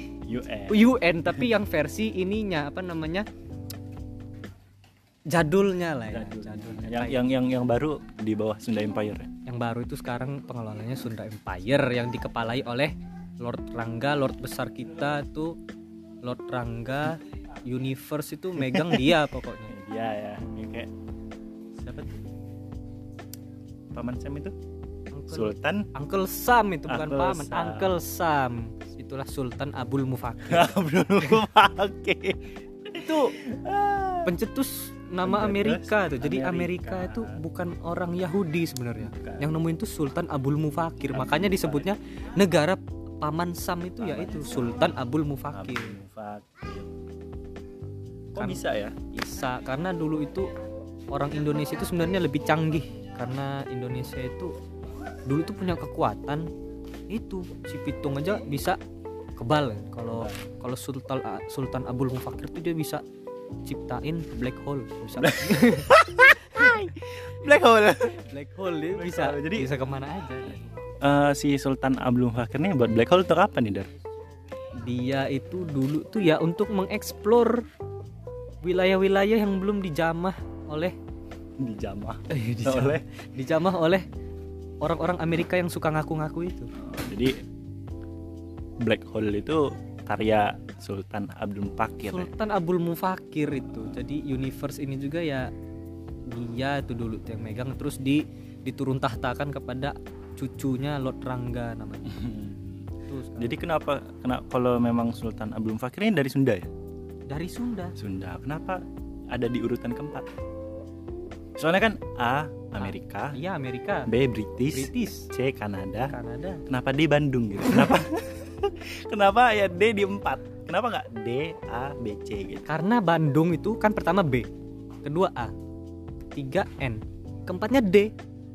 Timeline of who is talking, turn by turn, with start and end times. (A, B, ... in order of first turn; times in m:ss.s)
0:00.3-0:01.5 A
0:00.7-0:03.2 B
0:05.3-0:07.2 B
0:06.1-0:09.3 A
0:09.4-0:15.6 B
0:16.2-0:19.7 B
0:18.6-0:20.9 A
0:21.8-0:22.3 A
0:23.9-0:24.5 A
0:25.1-0:30.8 B
0:25.3-0:25.9 A
0:26.9-0:28.0 A
0:30.4-0:34.3 A
0:32.9-0:33.4 B
0:34.2-0:46.0 B
0:35.2-0:37.4 A
0:39.0-0:39.5 A
0:41.1-0:41.9 A
0:44.0-0:45.0 A
0:45.5-0:47.0 A
0:48.3-0:48.9 A
0:48.3-0:50.5 B
0:51.1-0:54.5 B
0:55.2-0:56.5 B
0:57.1-0:58.8 B
0:59.4-1:03.0 B
1:00.1-1:00.4 A
1:03.6-1:05.9 B
1:05.2-1:08.3 A
1:08.1-1:10.7 B
1:08.8-1:09.7 A
1:11.0-1:13.9 A
1:14.8-1:17.6 B
1:18.6-1:20.9 B
1:21.6-1:23.0 A
1:22.3-1:24.0 B
1:24.8-1:26.7 B
1:26.8-1:27.4 A
1:28.8-1:32.3 A
1:32.0-1:35.5 B
1:36.3-1:42.2 B
1:42.0-1:46.7 A
1:43.0-1:43.6 B
1:47.3-1:47.9 B
1:48.0-1:50.3 A
1:51.6-1:53.4 A
1:52.8-1:54.1 B
1:54.1-1:56.1 A
1:54.7-1:55.3 B
1:56.0-1:56.6 B
1:56.7-2:02.6 A
2:02.7-2:04.5 B
2:05.0-2:05.5 B
2:06.3-2:08.1 B